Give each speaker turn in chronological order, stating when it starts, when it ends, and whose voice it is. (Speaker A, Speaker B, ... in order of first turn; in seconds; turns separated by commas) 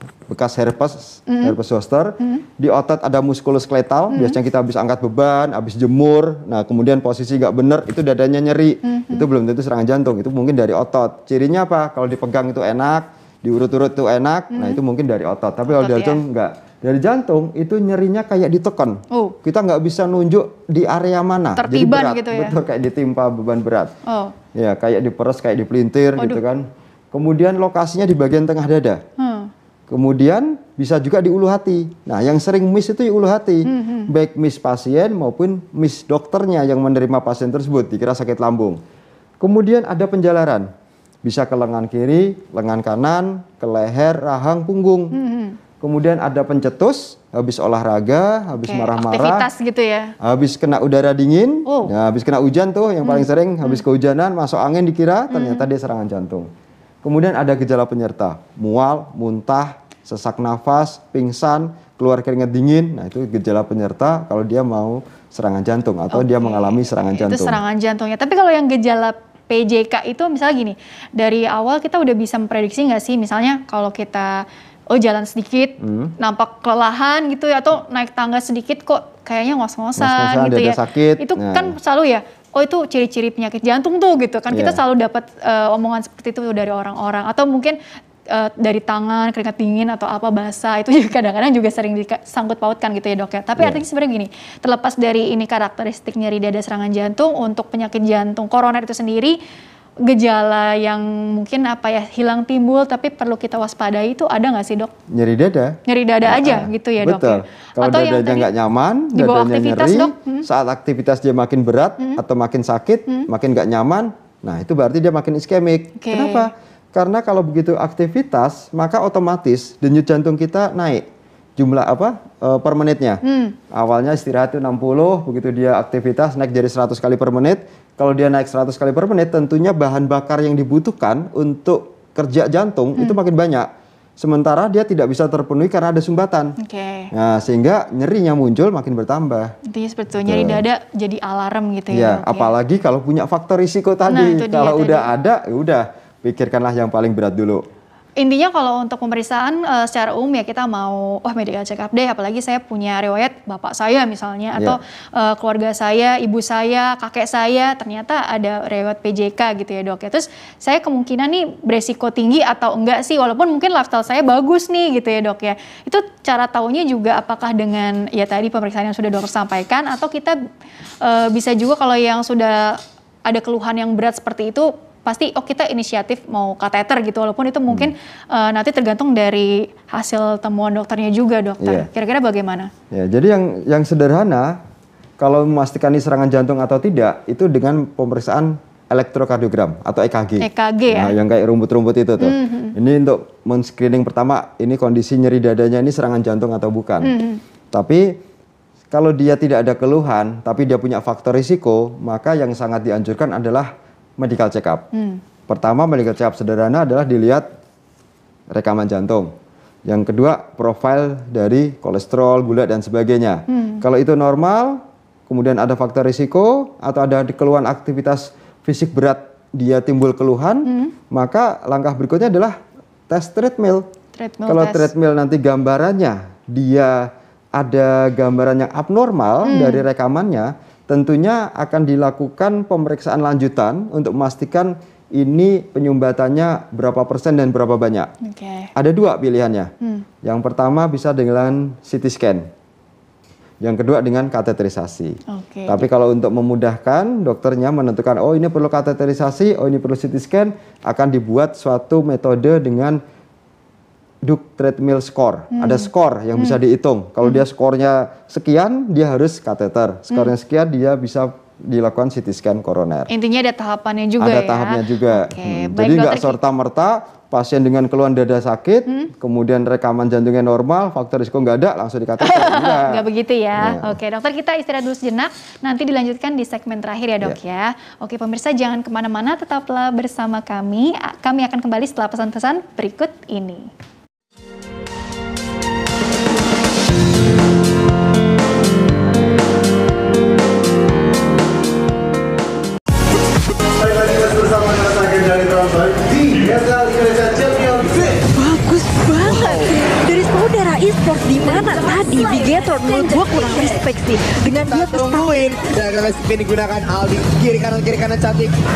Speaker A: 0.3-23.9, Speaker B: 1.3-1.6, Speaker B: 4.1-4.4, Speaker B: 8.8-9.2, Speaker B: 14.5-14.8, Speaker B: 15.7-16.2, Speaker B: 21.6-22.6, Speaker B: 24.1-24.4, Speaker A: 24.5-29.0, Speaker B: 29.2-29.5, Speaker A: 29.9-38.8, Speaker B: 33.6-34.1, Speaker A: 39.4-40.7, Speaker A: 41.2-45.2, Speaker B: 45.1-45.6, Speaker A: 45.8-49.5, Speaker B: 48.6-50.1, Speaker A: 50.2-56.5, Speaker B: 51.7-51.9, Speaker B: 53.0-53.8, Speaker B: 55.3-55.6, Speaker A: 57.0-67.6, Speaker B: 66.1-87.8, Speaker A: 75.8-76.1, Speaker A: 80.0-81.8, Speaker A: 84.5-84.8, Speaker B: 88.3-99.4, Speaker B: 100.1-104.9, Speaker A: 105.1-136.6, Speaker B: 105.9-108.5, Speaker B: 109.2-110.5, Speaker B: 116.0-116.5, Speaker B: 123.2-123.5, Speaker B: 136.6-137.1, Speaker A: 137.1-139.6, Speaker B: 139.7-142.5, Speaker A: 140.2-140.6, Speaker A: 141.9-147.6, Speaker B: 144.1-145.1, Speaker B: 148.2-170.4, Speaker B: 171.0-182.7, Speaker A: 177.7-177.9, Speaker A: 181.6-181.9, Speaker A: 182.9-184.6, Speaker A: 185.2-197.2, Speaker B: 190.4-191.2, Speaker B: 192.2-192.8, Speaker B: 197.0-197.4, Speaker A: 197.7-198.2, Speaker A: 198.9-204.9, Speaker B: 204.9-205.2, Speaker A: 205.5-207.5, Speaker A: 208.5-209.3, Speaker A: 209.9-222.6, Speaker B: 213.5-213.8, Speaker B: 220.7-220.9, Speaker A: 223.1-223.9, Speaker B: 224.2-224.9, Speaker A: 224.5-238.1, Speaker B: 229.4-229.8, Speaker B: 238.2-238.7, Speaker A: 238.8-239.7, Speaker A: 240.2-242.5, Speaker A: 243.6-253.0, Speaker B: 245.3-245.9, Speaker A: 254.2-263.1, Speaker B: 255.5-256.6, Speaker B: 263.1-266.4, Speaker A: 264.2-274.0, Speaker B: 272.2-283.7, Speaker C: 293.8-298.2, Speaker D: 298.3-305.5, Speaker C: 299.2-299.6, Speaker C: 304.6-308.6